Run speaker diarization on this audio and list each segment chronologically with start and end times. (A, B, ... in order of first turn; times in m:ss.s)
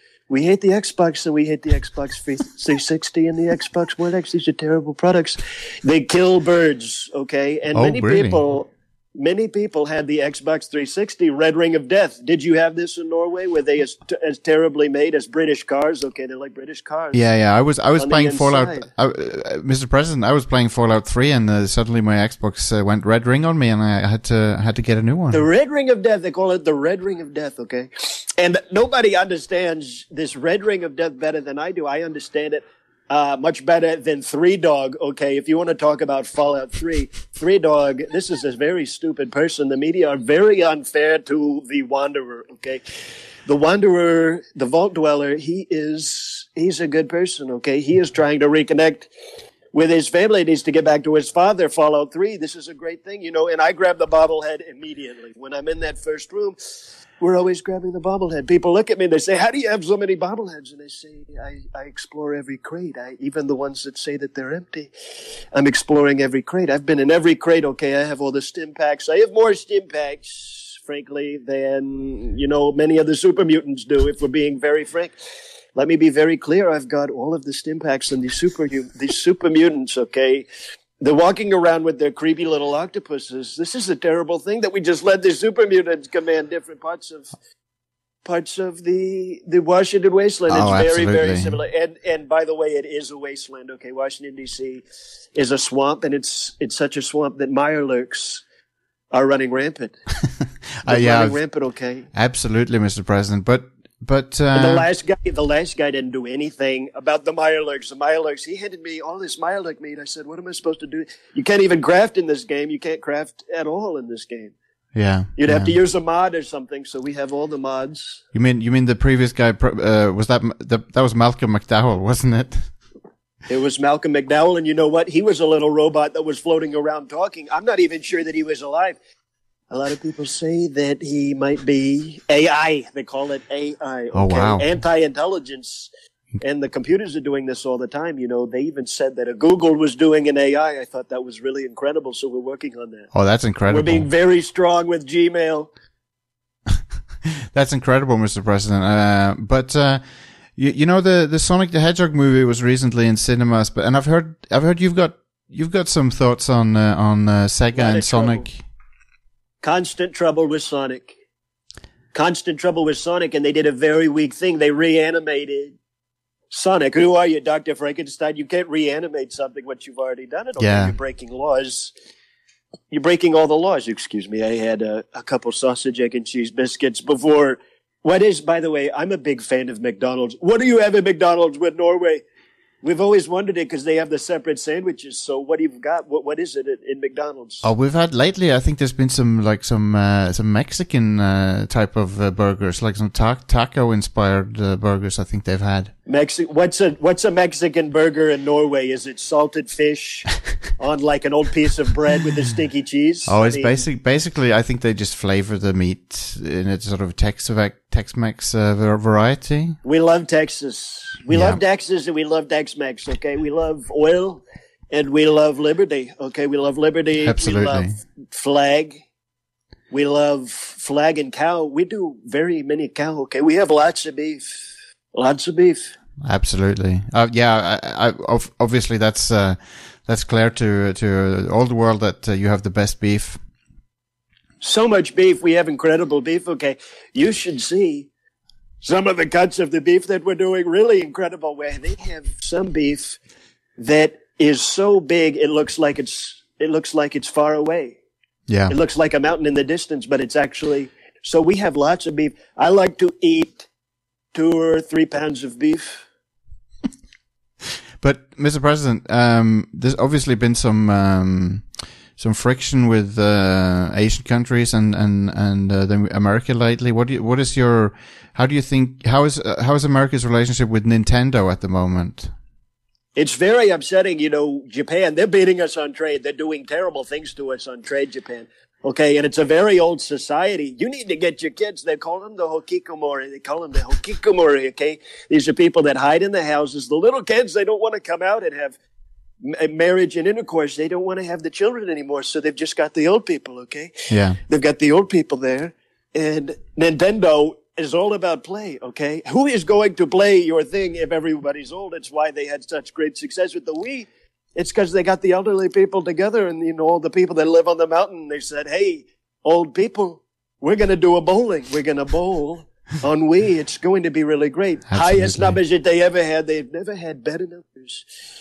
0:00.3-0:17.2 A
0:07.7-0:08.4 B
0:17.1-0:25.5 B
0:18.0-0:18.9 A
0:25.3-0:42.8 A
0:43.4-0:49.1 A
0:49.7-0:56.6 A
0:57.2-1:04.9 A
1:05.5-1:15.1 A
1:15.7-1:20.5 A
1:21.0-1:27.3 A
1:28.2-1:34.8 A
1:30.5-1:31.6 B
1:35.3-1:38.4 A
1:39.1-1:39.9 A
1:40.8-1:41.4 B
1:40.8-1:42.1 A
1:42.1-1:44.9 B
1:44.5-1:54.5 A
1:54.9-1:55.8 B
1:55.4-1:58.2 A
1:58.3-2:02.7 B
2:03.5-2:09.0 A
2:09.7-2:23.1 A
2:14.1-2:14.7 B
2:23.1-2:24.1 B
2:23.7-2:25.7 A
2:27.2-2:30.0 B
2:30.6-2:38.6 B
2:37.7-2:38.5 A
2:39.6-2:41.1 A
2:42.1-2:45.8 A
2:46.5-2:51.9 A
2:50.6-2:50.9 B
2:52.9-3:02.2 A
3:02.8-3:07.7 A
3:07.6-3:15.9 B
3:16.1-3:23.8 A
3:23.2-3:29.8 B
3:29.8-3:39.0 A
3:31.3-3:31.6 B
3:37.2-3:38.0 B
3:39.9-3:45.9 A
3:46.2-3:53.4 B
3:54.6-3:58.1 A
3:58.8-4:03.2 A
4:03.8-4:08.0 A
4:08.5-4:08.8 B
4:08.7-4:13.7 A
4:14.3-4:16.0 A
4:18.0-4:32.3 B
4:33.2-4:48.7 A
4:49.4-5:18.1 A
4:54.1-4:54.4 B
5:14.9-5:15.6 B